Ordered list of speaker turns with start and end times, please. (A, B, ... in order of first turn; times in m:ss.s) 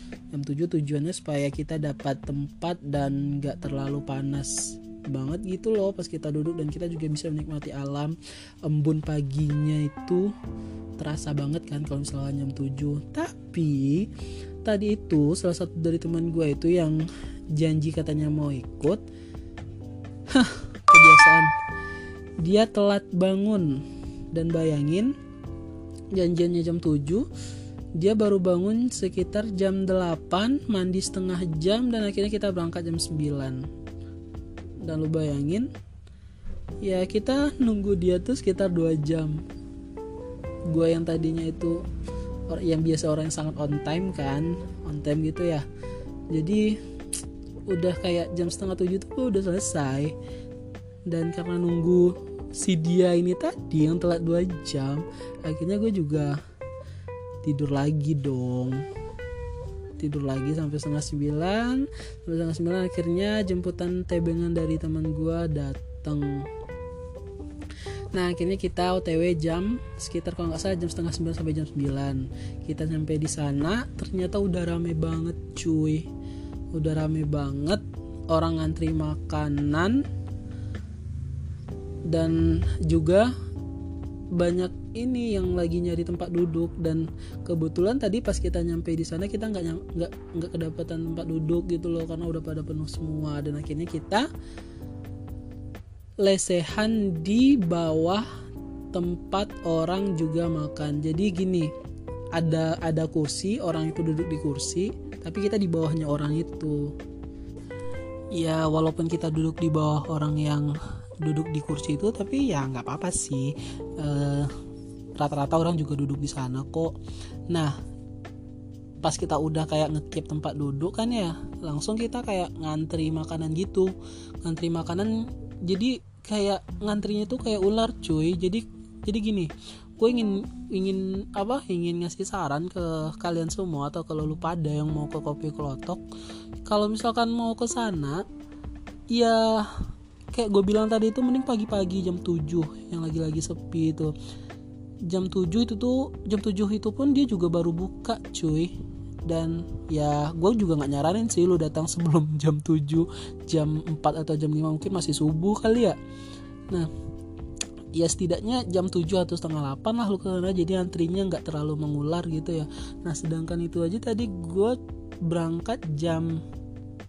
0:00.3-0:10.3 A
0:11.0-0:14.1 A
0:14.6-0:19.0 A
0:20.3-0:21.5 A
0:22.4-0:25.1 A
0:26.1-0:27.2 A
0:28.0-0:33.6 A
0:34.8-0:35.7 A
0:36.8-0:39.4 A
0:40.7-0:41.8 A
0:42.5-0:45.6 A
0:46.3-0:46.8 A
0:47.7-0:50.1 A
0:51.1-0:56.4 A
0:57.4-0:58.8 A
1:00.0-1:06.5 A
1:08.1-1:16.1 A
1:16.7-1:20.0 A
1:22.1-1:23.3 A
1:24.3-1:34.3 A
1:36.2-1:38.2 A
1:38.9-1:41.7 A
1:42.3-1:46.9 A
1:48.3-1:54.5 A
1:55.2-1:56.9 A
1:57.5-1:57.7 A
1:59.0-2:16.0 A
2:16.6-2:18.2 A
2:19.1-2:19.7 A
2:20.3-2:24.1 A
2:25.1-2:28.7 A
2:29.2-2:36.0 A
2:37.9-2:46.4 A